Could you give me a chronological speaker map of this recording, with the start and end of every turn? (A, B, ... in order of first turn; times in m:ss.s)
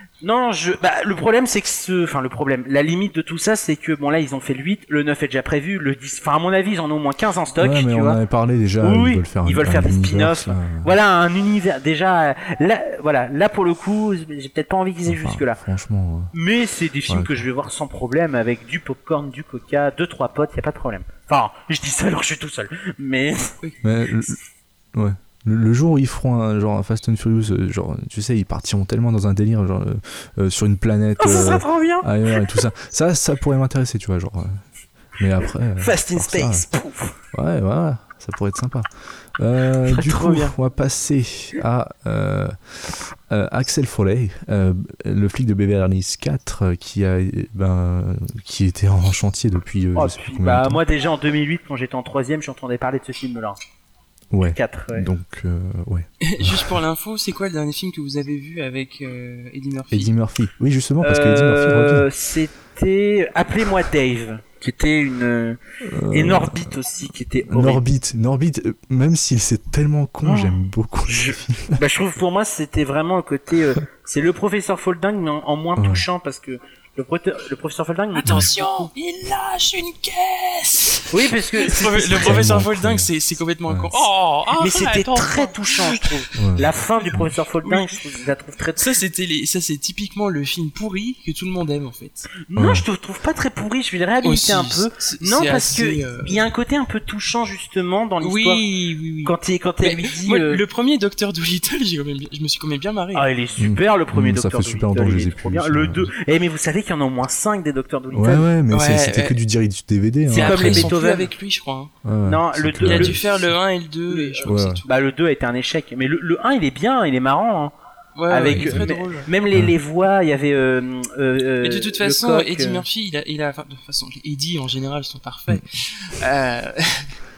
0:00.2-0:08.2 A
0:07.6-0:10.9 B
0:08.8-0:15.6 A
0:15.1-0:16.3 B
0:16.3-0:23.5 A
0:17.1-0:17.4 B
0:23.8-0:24.4 B
0:24.9-0:34.6 B
0:31.2-0:32.4 A
0:35.2-0:36.6 B
0:35.8-0:37.2 A
0:37.3-0:50.8 B
0:39.8-0:40.5 A
0:50.0-0:53.6 A
0:54.3-0:56.8 B
0:54.4-0:55.1 A
0:56.2-1:00.1 C
0:59.9-1:02.1 B
1:01.0-1:05.6 A
1:05.8-1:06.7 B
1:06.1-1:07.8 A
1:07.5-1:11.8 B
1:10.2-1:10.5 A
1:11.1-1:18.9 A
1:15.8-1:16.0 B
1:18.2-1:26.3 C
1:18.2-1:18.5 B
1:21.1-1:22.5 A
1:22.2-1:23.1 B
1:23.7-1:24.0 B
1:24.6-1:28.9 A
1:26.4-1:27.3 B
1:27.6-1:28.0 C
1:28.8-1:32.3 C
1:32.5-1:38.6 A
1:32.5-1:32.8 B
1:34.2-1:36.4 C
1:38.2-1:43.3 C
1:39.2-1:40.6 A
1:43.1-1:48.4 A
1:43.6-1:46.1 B
1:48.1-1:50.9 B
1:48.7-1:49.4 C
1:50.3-1:51.3 A
1:50.3-1:51.9 C
1:52.0-1:53.5 B
1:52.2-1:53.2 A
1:52.8-1:54.9 C
1:54.1-1:57.7 A
1:54.4-1:54.8 B
1:58.2-1:59.3 C
1:58.3-2:02.8 A
1:58.5-1:58.8 B
2:01.6-2:07.2 C